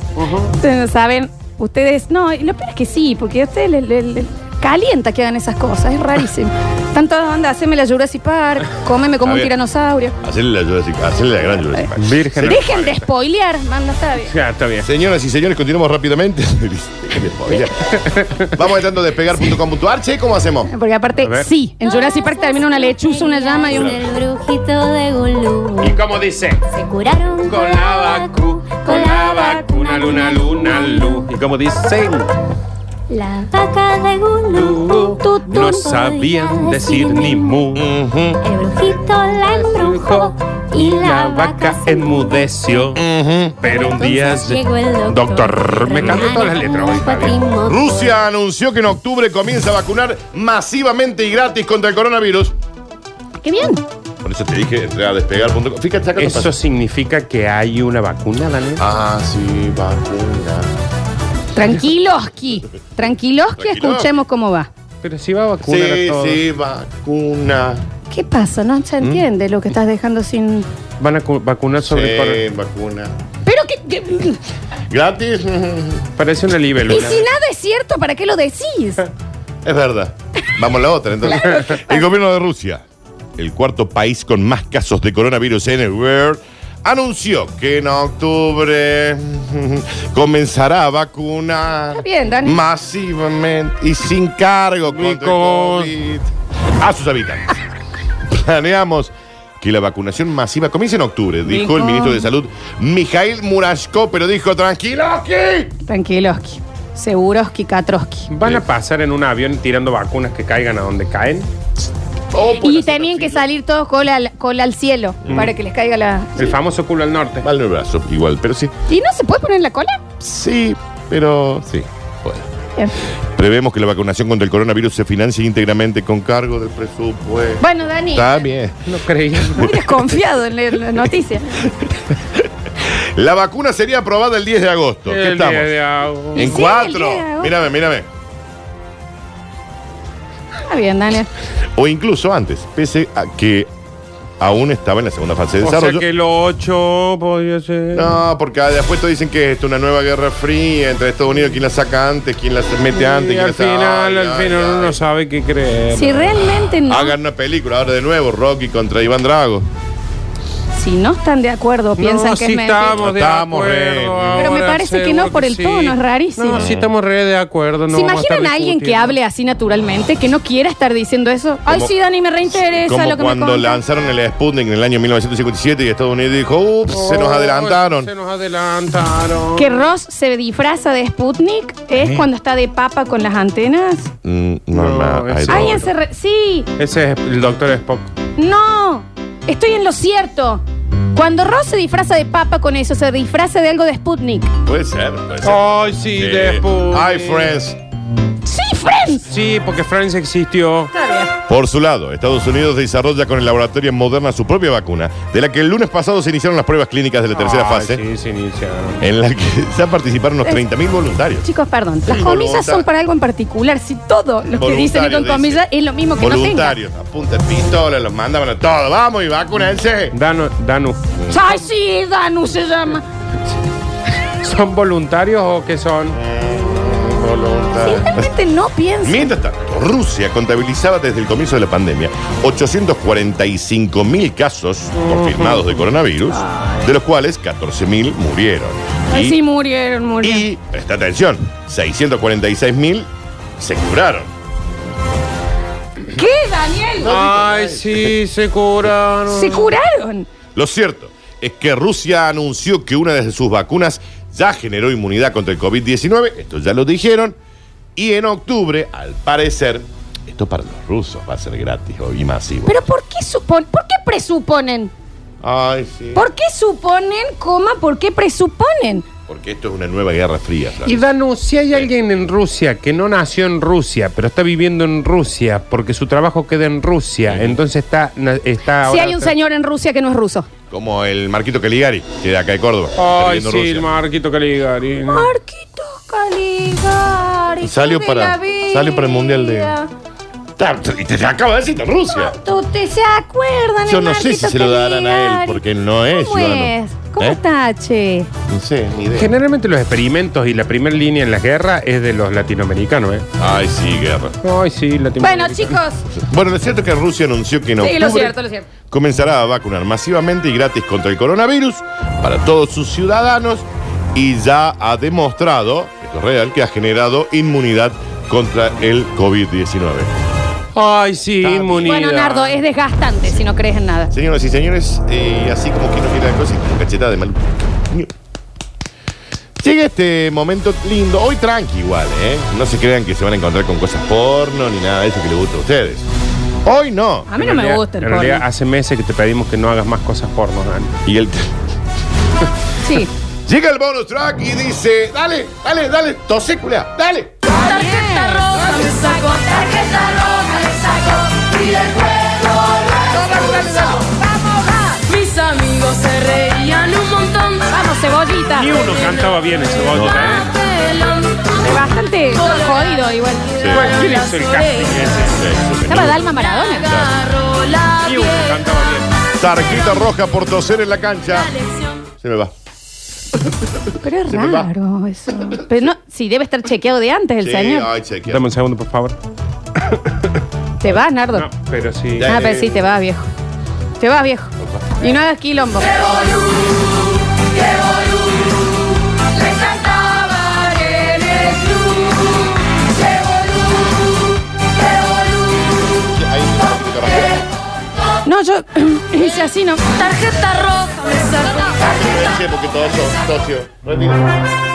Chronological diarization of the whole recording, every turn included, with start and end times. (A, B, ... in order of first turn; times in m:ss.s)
0:00.2-0:00.5 A
0:00.5-0:10.2 B
0:09.2-0:09.5 C
0:10.2-0:12.9 C
0:12.0-0:13.0 A
0:12.4-0:14.3 B
0:14.3-0:14.9 A
0:14.8-0:20.7 C
0:17.9-0:18.5 A
0:20.7-0:23.9 B
0:21.2-0:21.5 A
0:21.8-0:26.0 D
0:23.6-0:24.2 C
0:25.8-0:26.6 A
0:26.7-0:31.2 D
0:27.4-0:32.3 A
0:33.1-0:37.8 D
0:34.5-0:37.9 A
0:37.7-0:38.4 C
0:38.4-0:42.4 D
0:39.5-0:43.0 A
0:42.9-0:43.6 C
0:43.6-0:47.4 A
0:43.6-0:48.2 D
0:47.6-0:52.5 C
0:53.4-0:53.8 B
0:54.2-0:56.5 C
0:56.2-0:58.8 A
0:58.8-1:00.7 C
1:01.5-1:04.7 B
1:03.6-1:04.1 C
1:05.0-1:06.4 A
1:05.6-1:07.8 C
1:08.1-1:10.7 B
1:11.0-1:12.4 A
1:11.8-1:13.1 C
1:13.4-1:14.4 B
1:14.9-1:16.1 C
1:16.2-1:17.2 A
1:16.9-1:19.1 B
1:19.6-1:22.8 C
1:21.2-1:22.1 B
1:23.4-1:37.6 C
1:31.9-1:32.6 B
1:34.9-1:35.9 A
1:38.3-1:45.7 C
1:41.4-1:42.3 B
1:45.9-1:48.3 B
1:48.3-1:51.5 A
1:52.3-1:53.5 C
1:52.6-1:56.5 B
1:55.2-1:55.5 C
1:56.4-1:57.5 A
1:57.4-1:58.7 C
1:58.9-2:00.0 B
2:00.2-2:02.5 C
2:03.3-2:09.7 C
2:07.6-2:08.4 B
2:08.8-2:09.7 A
2:09.5-2:11.9 B
2:12.3-2:15.7 C
2:15.1-2:16.5 A
2:16.3-2:18.1 C
2:16.3-2:17.5 B
2:20.6-2:21.3 B
2:21.8-2:23.7 C
2:24.4-2:26.0 C
2:25.6-2:28.1 A
2:27.9-2:35.0 C
2:32.9-2:36.6 A
2:35.9-2:37.2 B
2:36.8-2:39.7 C
2:40.7-2:43.0 B
2:42.0-2:49.2 A
2:42.9-2:44.5 C
2:44.3-2:46.6 B
2:46.5-2:46.9 C
2:47.9-2:53.8 B
2:51.6-2:51.9 C
2:52.5-2:58.1 C
2:56.9-2:59.8 A
2:59.6-3:04.1 B
3:04.2-3:05.9 C
3:04.7-3:05.9 A
3:05.5-3:06.7 B
3:06.8-3:08.1 A
3:08.4-3:10.6 B
3:11.1-3:14.5 B
3:14.6-3:17.8 C
3:15.4-3:17.5 A
3:18.4-3:19.3 B
3:19.3-3:20.9 A
3:20.9-3:21.3 B
3:21.5-3:28.0 C
3:27.3-3:29.0 A
3:29.0-3:31.5 C
3:31.4-3:36.8 B
3:32.0-3:32.9 C
3:34.4-3:35.6 C
3:36.2-3:40.2 C
3:40.1-3:41.0 A
3:41.2-3:41.4 C
3:41.3-3:43.0 B
3:44.4-3:46.2 A
3:46.1-3:48.3 C
3:47.8-3:49.3 B
3:49.0-3:59.4 C
3:55.0-3:55.8 A
3:56.3-3:56.9 B
3:59.1-4:00.5 B
4:00.2-4:04.3 C
4:06.1-4:07.1 B
4:07.0-4:08.2 C
4:07.0-4:09.7 A
4:09.3-4:10.3 B
4:10.5-4:17.4 C
4:18.0-4:22.8 C
4:22.6-4:24.9 B
4:25.4-4:26.2 C
4:26.1-4:29.0 B
4:29.3-4:31.1 C
4:30.8-4:39.3 A
4:37.2-4:37.6 C
4:38.8-4:40.5 B
4:40.7-4:43.9 C
4:43.0-4:45.3 A
4:45.1-4:49.9 B
4:47.6-4:49.7 C
4:50.6-4:52.3 C
4:52.1-4:58.3 B
4:53.8-4:57.4 C
4:58.5-4:59.3 C
4:59.2-5:03.2 A
5:03.4-5:04.4 C
5:04.4-5:05.8 A
5:05.2-5:06.0 B
5:06.2-5:08.4 C
5:07.8-5:08.7 B
5:08.9-5:20.1 C
5:20.7-5:22.6 A
5:21.4-5:22.0 C
5:21.8-5:24.1 B
5:24.1-5:28.1 C
5:29.6-5:36.1 C
5:36.6-5:37.3 C
5:37.3-5:38.4 B
5:37.4-5:41.0 A
5:41.0-5:41.5 C
5:42.8-5:43.1 B
5:43.5-5:47.5 C
5:47.5-5:57.7 E
5:47.5-5:49.4 B
5:53.1-5:54.0 C
5:57.7-5:58.8 B
5:58.6-6:00.5 A
5:59.0-5:59.2 E
5:59.9-6:00.5 C
6:00.4-6:05.1 E
6:01.6-6:03.6 B
6:03.6-6:03.9 C
6:03.7-6:05.5 A
6:05.3-6:07.3 C
6:05.8-6:06.9 B
6:06.4-6:09.0 E
6:08.0-6:09.1 A
6:09.4-6:11.5 C
6:11.3-6:12.0 E
6:12.2-6:12.5 C
6:14.0-6:17.9 B
6:14.2-6:14.7 C
6:15.5-6:15.8 C
6:17.4-6:18.4 C
6:18.3-6:19.2 A
6:20.8-6:21.5 B
6:21.3-6:22.3 A
6:22.1-6:22.9 C
6:22.2-6:23.3 B
6:24.0-6:26.3 B
6:27.6-6:28.2 E
6:29.3-6:34.0 E
6:34.8-6:35.6 E
6:36.0-6:37.4 C
6:38.2-6:40.1 B
6:39.9-6:42.1 E
6:41.7-6:44.3 C